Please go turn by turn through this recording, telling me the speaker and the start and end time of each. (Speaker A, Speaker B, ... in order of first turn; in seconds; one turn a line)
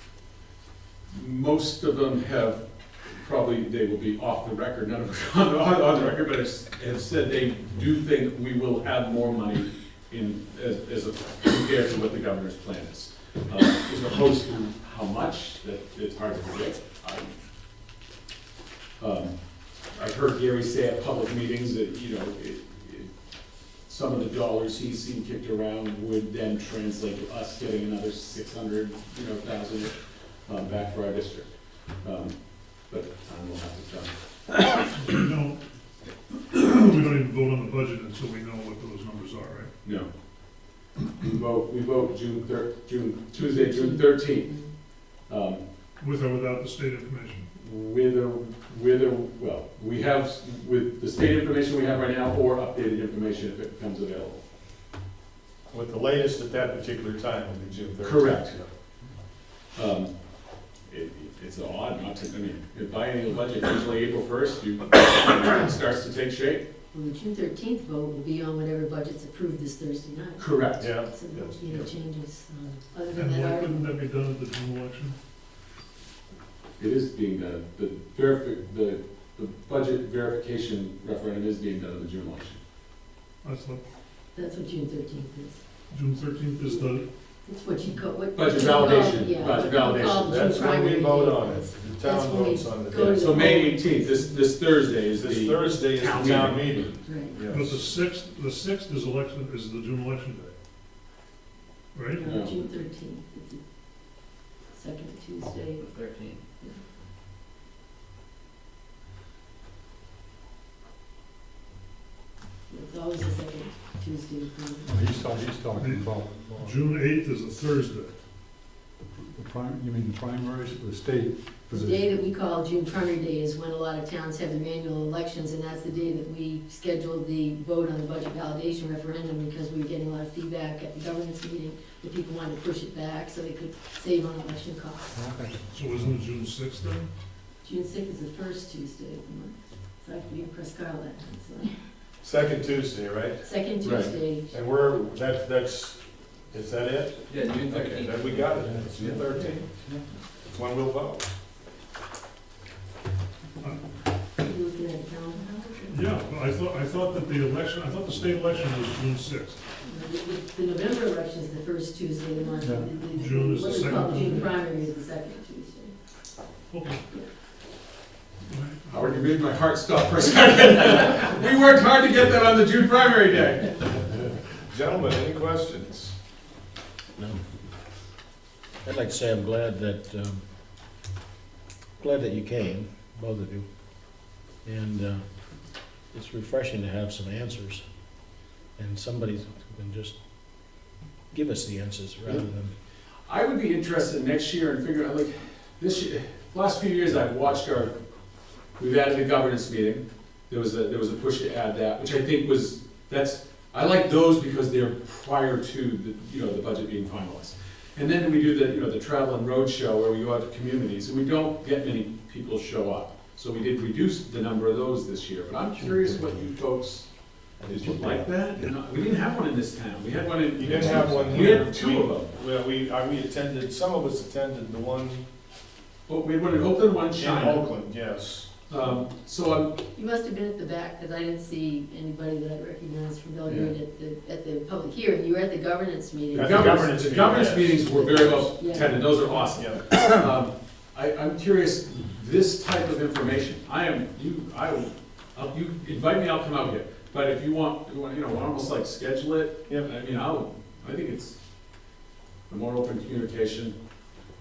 Speaker A: 1.1-2.6
Speaker A: 3.1-17.3
Speaker A: 19.0-19.3
Speaker A: 19.9-23.1
Speaker A: 23.9-29.9
Speaker A: 30.4-31.5
Speaker A: 32.0-34.1
Speaker B: 34.9-35.6
Speaker B: 36.5-39.7
Speaker A: 39.8-40.1
Speaker A: 41.2-44.5
Speaker C: 43.3-44.7
Speaker A: 45.3-45.6
Speaker B: 46.0-47.5
Speaker A: 47.6-54.4
Speaker D: 55.7-58.7
Speaker A: 58.0-58.6
Speaker A: 59.7-60.1
Speaker A: 60.9-66.7
Speaker C: 66.9-73.9
Speaker A: 70.4-70.9
Speaker D: 70.8-71.9
Speaker B: 73.1-75.2
Speaker A: 76.8-82.6
Speaker B: 83.4-83.8
Speaker C: 84.3-85.6
Speaker B: 85.9-87.1
Speaker C: 87.4-94.5
Speaker A: 88.3-90.3
Speaker D: 90.2-93.3
Speaker A: 93.1-96.9
Speaker D: 95.0-97.8
Speaker C: 97.0-97.4
Speaker B: 97.5-100.5
Speaker B: 101.9-102.2
Speaker C: 102.2-103.6
Speaker A: 102.2-102.5
Speaker C: 104.7-105.9
Speaker E: 105.8-106.4
Speaker C: 112.7-114.9
Speaker F: 114.8-116.8
Speaker B: 115.7-118.1
Speaker F: 119.3-122.1
Speaker C: 121.7-135.2
Speaker F: 135.1-135.6
Speaker B: 135.7-137.1
Speaker C: 137.6-141.7
Speaker D: 142.2-143.4
Speaker C: 143.4-144.6
Speaker A: 143.8-144.1
Speaker D: 144.5-149.7
Speaker E: 147.3-149.2
Speaker F: 148.6-149.1
Speaker F: 149.7-150.0
Speaker D: 150.4-151.3
Speaker C: 154.4-156.0
Speaker B: 155.9-159.6
Speaker C: 159.8-165.9
Speaker F: 162.6-162.9
Speaker B: 163.1-164.5
Speaker B: 166.7-167.0
Speaker B: 168.4-169.3
Speaker A: 168.9-174.1
Speaker D: 174.7-176.1
Speaker G: 177.2-177.4
Speaker G: 178.8-180.4
Speaker G: 182.0-183.7
Speaker G: 184.6-185.2
Speaker G: 186.1-187.8
Speaker G: 188.8-190.2
Speaker G: 191.3-192.7
Speaker A: 193.3-197.9
Speaker A: 198.8-217.1
Speaker A: 217.7-222.3
Speaker D: 220.5-225.2
Speaker F: 220.8-221.0
Speaker A: 226.1-227.7
Speaker D: 227.2-228.5
Speaker A: 228.7-229.8
Speaker C: 229.9-237.0
Speaker A: 233.4-233.7
Speaker D: 236.3-237.9
Speaker A: 236.3-251.4
Speaker C: 237.8-239.6
Speaker D: 239.5-239.9
Speaker A: 252.5-253.8